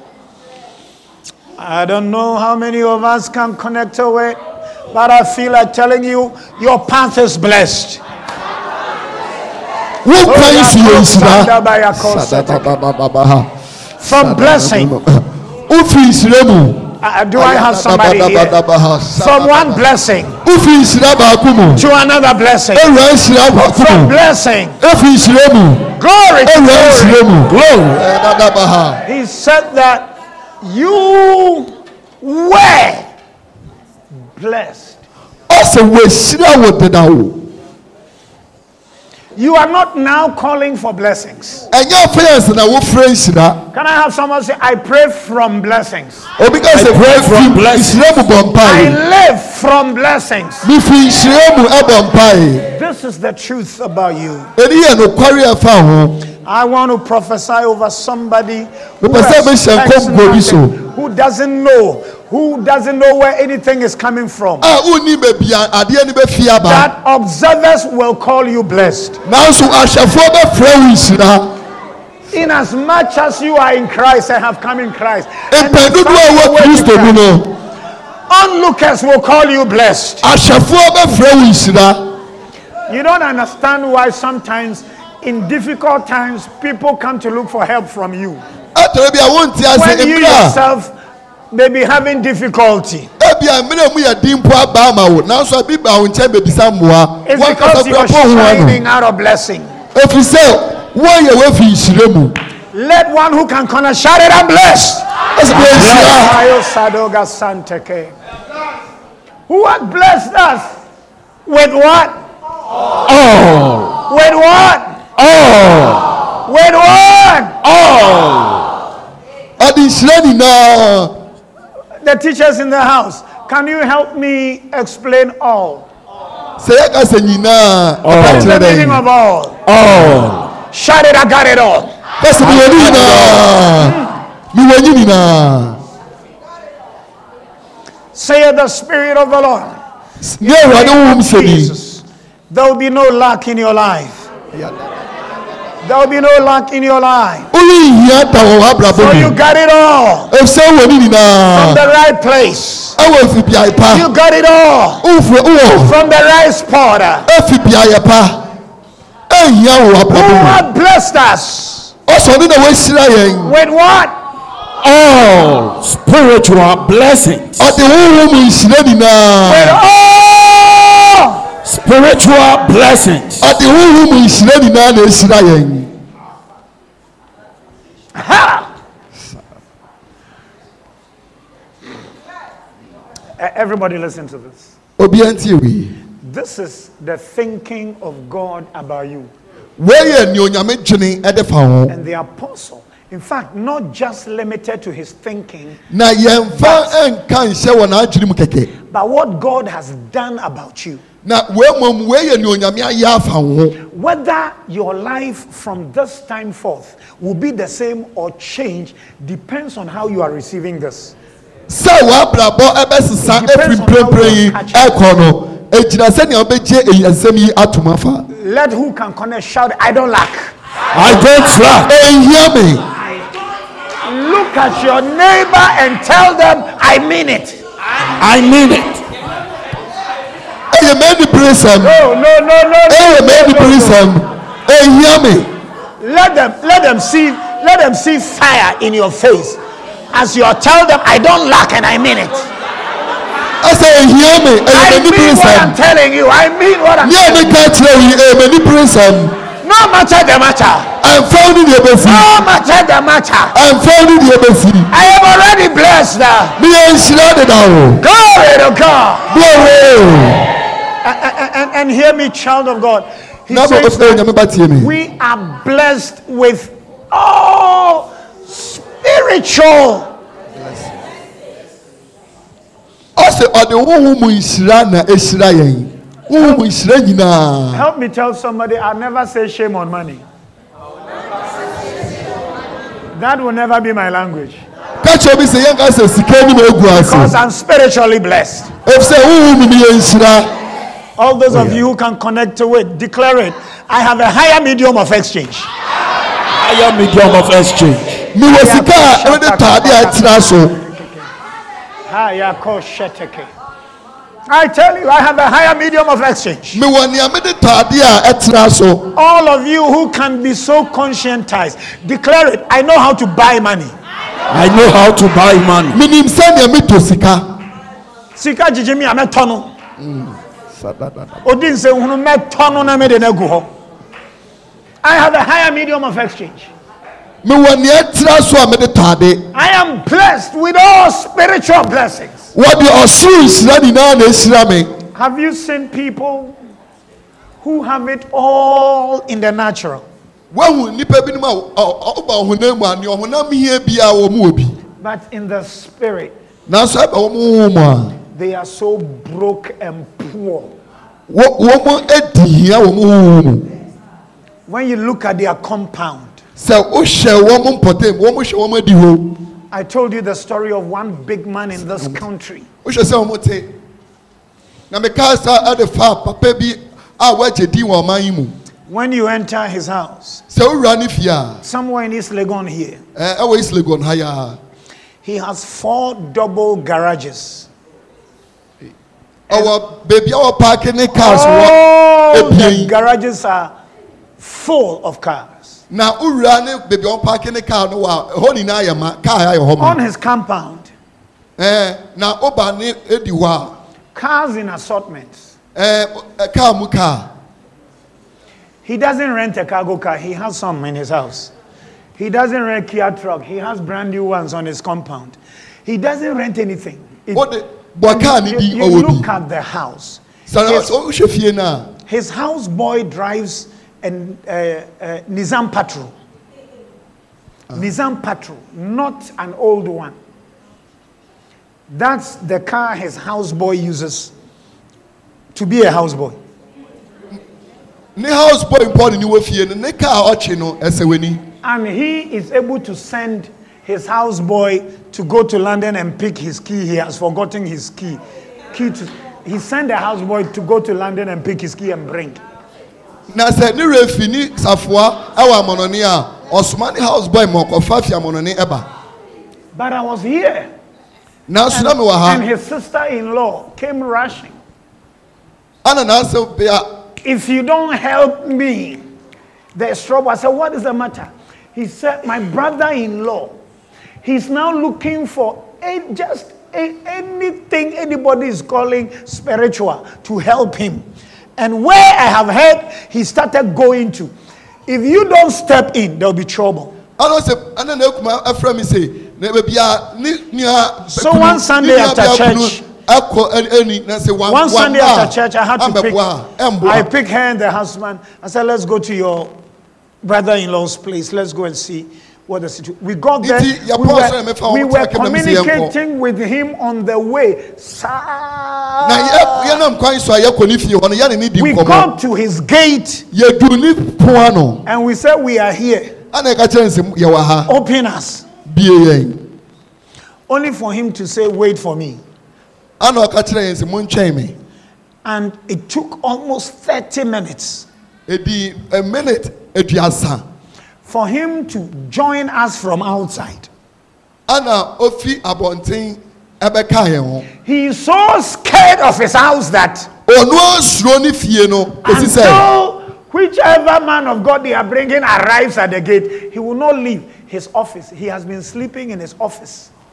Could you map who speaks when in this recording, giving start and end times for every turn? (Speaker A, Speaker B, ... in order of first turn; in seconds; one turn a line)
Speaker A: 1.6-4.4
Speaker A: 4.9-8.0
Speaker B: 10.0-19.8
Speaker A: 10.2-12.7
Speaker A: 14.0-14.9
Speaker A: 17.0-18.6
Speaker A: 19.1-20.4
Speaker B: 20.4-21.9
Speaker A: 21.8-22.9
Speaker B: 22.7-24.1
Speaker A: 23.6-24.8
Speaker B: 24.8-25.9
Speaker A: 26.0-27.2
Speaker B: 26.4-29.0
Speaker C: 27.5-28.0
Speaker A: 29.1-33.1
Speaker A: 34.3-35.0
Speaker B: 35.5-37.5
Speaker A: 39.3-41.6
Speaker B: 41.7-43.7
Speaker A: 43.7-46.3
Speaker B: 46.4-49.0
Speaker C: 46.7-48.0
Speaker A: 48.6-50.7
Speaker B: 50.6-52.7
Speaker A: 52.7-54.5
Speaker B: 54.5-56.3
Speaker A: 56.4-64.7
Speaker B: 59.0-60.8
Speaker B: 64.6-66.9
Speaker A: 66.6-69.2
Speaker B: 69.2-71.6
Speaker A: 72.3-77.2
Speaker B: 75.5-77.5
Speaker A: 78.3-80.2
Speaker B: 80.2-82.1
Speaker A: 82.9-88.4
Speaker B: 88.7-90.6
Speaker A: 89.7-90.9
Speaker A: 91.5-93.1
Speaker B: 93.2-98.8
Speaker A: 97.2-99.7
Speaker B: 99.9-102.4
Speaker A: 102.7-105.1
Speaker B: 105.3-106.3
Speaker C: 105.5-106.1
Speaker A: 105.6-108.1
Speaker A: 109.5-110.8
Speaker A: 111.4-112.2
Speaker C: 113.0-114.0
Speaker A: 114.1-115.0
Speaker C: 115.2-116.2
Speaker A: 116.4-117.6
Speaker C: 117.6-118.7
Speaker B: 119.6-121.2
Speaker A: 122.0-125.9
Speaker B: 126.6-129.0
Speaker C: 128.0-128.5
Speaker A: 128.1-129.6
Speaker C: 129.7-130.5
Speaker A: 130.7-131.9
Speaker B: 132.2-134.0
Speaker C: 132.4-133.4
Speaker A: 133.8-134.1
Speaker B: 134.5-135.8
Speaker A: 138.1-139.8
Speaker B: 140.2-141.7
Speaker A: 140.4-144.3
Speaker B: 144.5-144.9
Speaker A: 145.8-147.5
Speaker B: 147.5-149.3
Speaker A: 148.9-150.3
Speaker B: 150.3-151.8
Speaker A: 151.5-153.0
Speaker B: 153.0-154.1
Speaker A: 153.9-155.1
Speaker B: 155.0-155.9
Speaker A: 155.7-157.3
Speaker B: 157.3-158.5
Speaker B: 159.3-160.6
Speaker A: 160.1-161.9
Speaker B: 162.1-163.5
Speaker A: 163.4-164.2
Speaker C: 164.8-167.7
Speaker B: 167.6-169.8
Speaker A: 169.4-171.4
Speaker C: 171.6-173.5
Speaker B: 173.4-175.9
Speaker A: 178.1-178.7
Speaker A: 183.4-184.7
Speaker B: 185.0-185.9
Speaker A: 186.2-189.3
Speaker B: 189.8-191.9
Speaker A: 191.9-195.8
Speaker B: 195.9-198.7
Speaker A: 196.5-196.9
Speaker A: 198.9-201.0
Speaker B: 201.2-203.8
Speaker A: 203.9-211.1
Speaker B: 211.7-218.3
Speaker A: 213.2-214.9
Speaker A: 218.3-220.5
Speaker C: 220.9-221.9
Speaker B: 221.8-222.8
Speaker A: 224.0-227.6
Speaker C: 228.2-229.0
Speaker B: 230.7-232.0
Speaker A: 231.8-234.0
Speaker B: 232.9-235.5
Speaker A: 236.0-239.6
Speaker A: 240.1-242.5
Speaker B: 243.6-245.8
Speaker A: 244.7-247.6
Speaker B: 247.0-249.4
Speaker A: 249.6-250.9
Speaker B: 251.0-252.3
Speaker A: 252.0-253.6
Speaker B: 253.5-254.9
Speaker A: 254.9-256.6
Speaker B: 256.6-258.0
Speaker A: 258.0-259.3
Speaker B: 259.3-260.5
Speaker A: 261.0-270.1
Speaker B: 263.5-264.9
Speaker B: 270.5-271.0
Speaker B: 273.1-277.8
Speaker A: 277.7-280.2
Speaker A: 283.1-284.6
Speaker B: 285.0-287.3
Speaker A: 286.9-288.7
Speaker B: 288.8-290.5
Speaker A: 291.2-295.7
Speaker C: 296.6-298.2
Speaker B: 298.3-300.8
Speaker A: 298.5-301.2
Speaker A: 302.1-303.5
Speaker A: 304.5-306.8
Speaker B: 306.7-309.1
Speaker A: 309.1-313.9
Speaker C: 314.5-316.0
Speaker B: 315.9-317.5
Speaker A: 318.3-319.7
Speaker B: 320.0-321.4
Speaker A: 321.4-323.7
Speaker A: 325.0-326.7
Speaker B: 327.4-329.5
Speaker A: 329.5-332.5
Speaker B: 332.5-334.9
Speaker A: 335.1-336.6
Speaker A: 337.6-340.1
Speaker B: 340.5-344.7
Speaker A: 345.0-346.3
Speaker B: 346.7-348.2
Speaker A: 348.3-350.7
Speaker B: 351.3-353.7
Speaker A: 354.7-356.4
Speaker B: 356.6-359.4
Speaker A: 359.7-362.7
Speaker B: 362.8-363.7
Speaker B: 364.9-368.5
Speaker A: 368.9-370.4
Speaker B: 370.5-371.6
Speaker A: 371.6-373.0
Speaker B: 373.1-374.6
Speaker A: 375.2-377.7
Speaker B: 379.5-382.9
Speaker A: 381.1-383.7
Speaker A: 384.4-385.8
Speaker B: 385.9-390.0
Speaker A: 389.8-390.9
Speaker B: 391.6-393.7
Speaker A: 394.1-395.5
Speaker B: 395.7-397.3
Speaker A: 398.8-401.5
Speaker A: 402.1-407.5
Speaker B: 407.3-409.3
Speaker A: 408.0-410.9
Speaker B: 410.5-411.9
Speaker A: 412.1-416.1
Speaker A: 417.7-420.1
Speaker A: 421.9-424.3
Speaker A: 425.5-426.4
Speaker B: 428.1-431.4
Speaker A: 431.6-438.2
Speaker A: 438.7-442.4
Speaker B: 443.3-448.9
Speaker A: 449.7-450.7
Speaker B: 451.5-452.4
Speaker A: 451.7-454.6
Speaker B: 455.8-456.9
Speaker A: 457.2-459.0
Speaker A: 459.7-463.6
Speaker A: 464.2-471.1
Speaker A: 471.6-474.3
Speaker A: 474.9-476.9
Speaker B: 477.2-487.1
Speaker A: 481.1-482.8
Speaker A: 484.5-486.2
Speaker A: 486.8-489.6
Speaker A: 490.2-499.8
Speaker B: 493.4-495.9
Speaker B: 499.0-502.1
Speaker A: 501.6-503.2
Speaker B: 503.3-504.8
Speaker A: 504.9-506.1
Speaker B: 506.3-507.7
Speaker A: 507.6-508.4
Speaker B: 508.6-509.4
Speaker A: 510.5-512.2
Speaker B: 513.0-514.5
Speaker A: 515.2-517.9
Speaker B: 518.3-520.4
Speaker A: 521.0-523.7
Speaker B: 524.5-527.5
Speaker A: 527.6-530.1
Speaker B: 530.3-532.6
Speaker A: 532.0-539.9